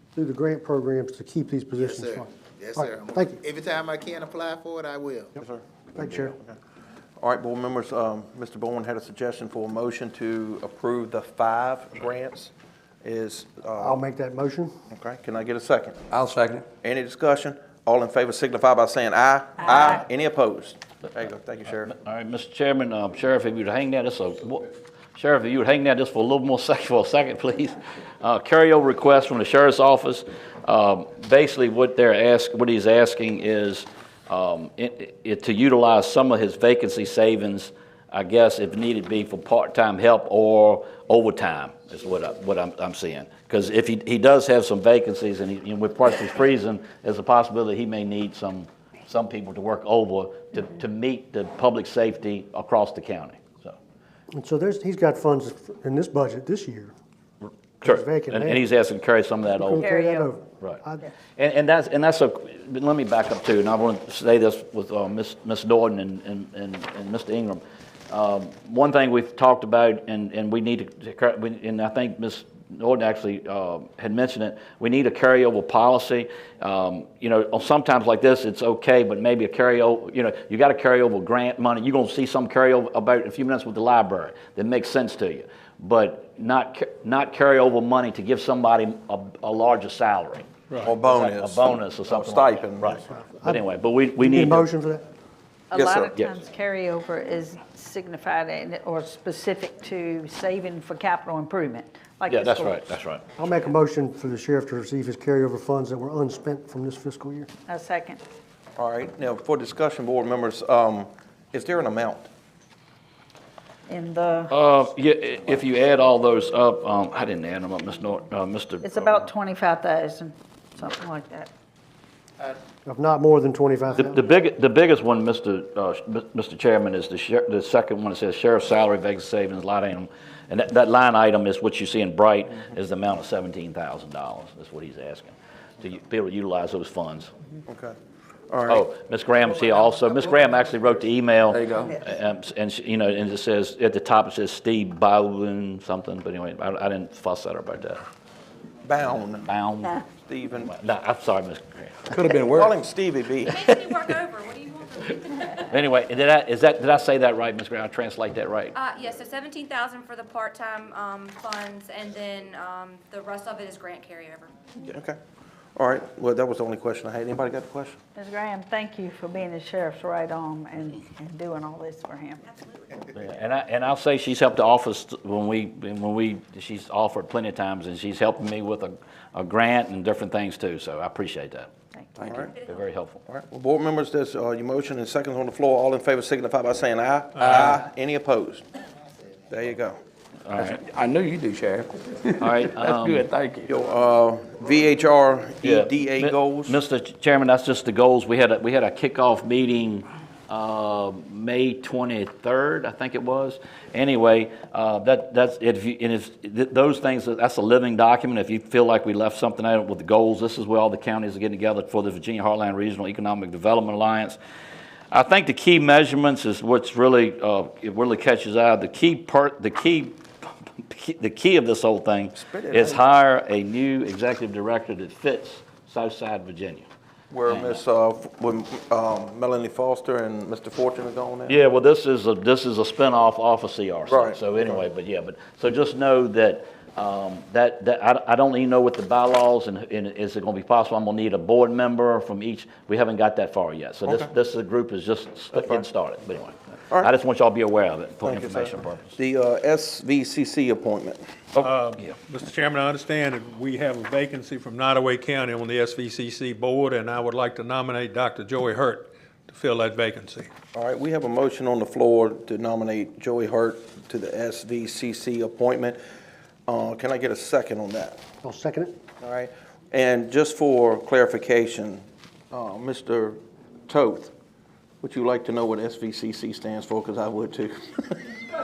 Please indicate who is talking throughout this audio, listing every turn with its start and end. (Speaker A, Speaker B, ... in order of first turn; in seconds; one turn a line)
Speaker A: 0.1-3.4
Speaker B: 1.8-5.3
Speaker C: 5.4-6.5
Speaker A: 6.0-6.3
Speaker C: 7.2-14.0
Speaker A: 13.8-14.7
Speaker C: 14.9-16.0
Speaker D: 16.1-16.7
Speaker C: 16.8-21.9
Speaker E: 21.8-53.8
Speaker A: 54.3-56.9
Speaker A: 57.8-58.6
Speaker E: 57.8-59.9
Speaker A: 59.5-61.0
Speaker F: 59.8-60.4
Speaker E: 61.4-90.5
Speaker C: 90.8-93.0
Speaker E: 91.0-94.7
Speaker A: 93.1-93.7
Speaker A: 94.2-95.0
Speaker F: 95.7-103.0
Speaker C: 95.7-96.1
Speaker E: 102.3-103.2
Speaker A: 103.4-107.5
Speaker F: 107.7-108.2
Speaker C: 108.8-112.3
Speaker F: 113.9-114.5
Speaker E: 114.5-119.3
Speaker F: 118.8-121.5
Speaker A: 122.9-124.2
Speaker E: 124.0-137.3
Speaker C: 137.7-137.9
Speaker C: 138.5-138.9
Speaker E: 138.7-148.0
Speaker D: 141.5-141.9
Speaker C: 148.8-149.5
Speaker E: 149.4-150.0
Speaker C: 150.2-150.7
Speaker E: 150.6-152.1
Speaker D: 152.1-152.7
Speaker C: 152.5-153.6
Speaker G: 153.5-155.8
Speaker E: 155.7-158.7
Speaker G: 158.8-164.5
Speaker C: 164.9-165.2
Speaker C: 165.8-168.0
Speaker F: 168.2-172.5
Speaker G: 172.5-173.1
Speaker E: 173.1-181.7
Speaker D: 182.2-182.4
Speaker G: 182.3-182.9
Speaker E: 182.6-183.2
Speaker C: 183.2-188.7
Speaker H: 187.4-187.7
Speaker C: 189.5-190.0
Speaker E: 190.4-190.8
Speaker D: 190.6-193.7
Speaker E: 192.4-193.3
Speaker C: 193.7-196.8
Speaker E: 195.6-214.4
Speaker E: 215.1-226.9
Speaker C: 222.3-223.0
Speaker C: 227.3-231.6
Speaker E: 227.5-227.8
Speaker E: 231.5-249.2
Speaker C: 234.1-234.8
Speaker C: 245.5-245.9
Speaker C: 248.2-251.2
Speaker E: 251.6-252.2
Speaker H: 251.6-260.5
Speaker C: 260.7-266.0
Speaker C: 266.7-268.2
Speaker A: 268.4-268.9
Speaker C: 269.2-274.3
Speaker C: 275.0-278.3